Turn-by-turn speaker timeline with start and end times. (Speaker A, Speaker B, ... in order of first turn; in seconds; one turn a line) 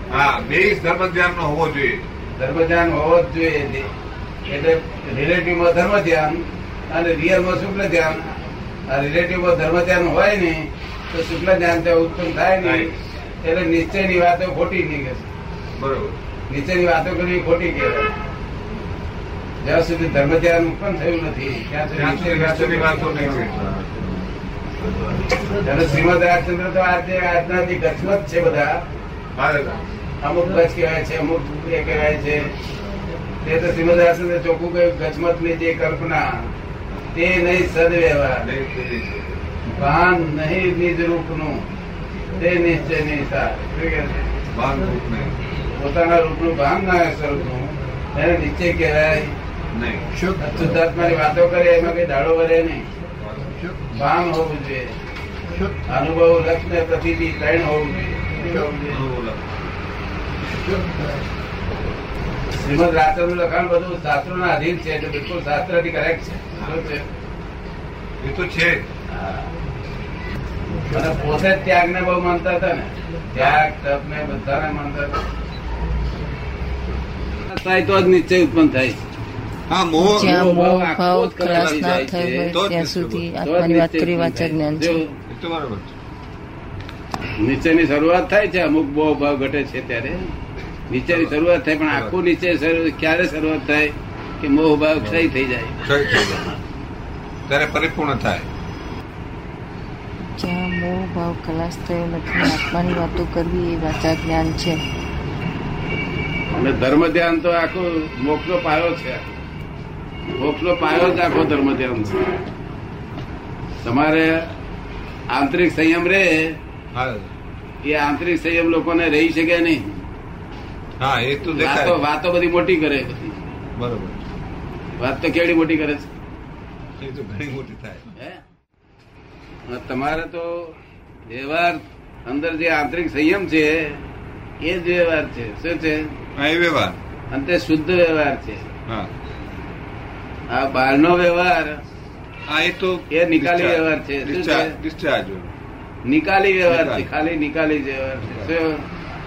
Speaker A: 0.1-2.0
Speaker B: 2.4-3.9
Speaker B: 4.5-15.3
Speaker A: 12.6-12.9
Speaker A: 15.7-16.2
Speaker B: 16.5-18.1
Speaker B: 19.6-23.1
Speaker A: 21.9-24.1
Speaker B: 25.6-28.8
Speaker A: 29.3-29.8
Speaker B: 30.2-32.5
Speaker B: 33.4-36.3
Speaker B: 37.1-38.5
Speaker A: 38.4-39.4
Speaker B: 39.7-41.6
Speaker B: 42.4-44.2
Speaker A: 44.5-45.4
Speaker B: 45.7-49.4
Speaker A: 49.7-50.1
Speaker B: 50.4-52.9
Speaker A: 53.2-53.6
Speaker B: 53.9-54.9
Speaker B: 55.8-59.0
Speaker A: 58.9-59.7
Speaker B: 62.5-67.0
Speaker A: 66.5-66.9
Speaker A: 68.2-68.8
Speaker B: 69.1-69.5
Speaker B: 70.9-75.2
Speaker B: 77.5-79.0
Speaker A: 79.7-80.4
Speaker C: 80.0-85.0
Speaker B: 80.2-82.5
Speaker A: 81.4-83.3
Speaker B: 83.4-85.2
Speaker A: 85.3-85.9
Speaker B: 87.4-90.3
Speaker B: 90.9-95.8
Speaker A: 91.1-91.4
Speaker A: 95.0-95.3
Speaker A: 95.8-96.5
Speaker A: 97.5-98.5
Speaker C: 100.3-104.8
Speaker B: 106.5-109.3
Speaker B: 110.4-112.3
Speaker B: 113.8-114.5
Speaker B: 115.3-116.6
Speaker A: 116.9-117.3
Speaker B: 117.8-120.0
Speaker A: 121.0-122.0
Speaker B: 121.5-123.4
Speaker A: 123.8-124.2
Speaker B: 125.0-126.1
Speaker A: 127.0-128.1
Speaker B: 128.2-128.4
Speaker B: 129.7-134.0
Speaker B: 134.6-136.2
Speaker A: 136.3-137.0
Speaker B: 137.3-138.7
Speaker B: 140.5-141.8
Speaker A: 142.5-145.5
Speaker B: 143.1-144.8
Speaker B: 146.1-148.8
Speaker A: 146.7-147.1
Speaker A: 148.2-148.5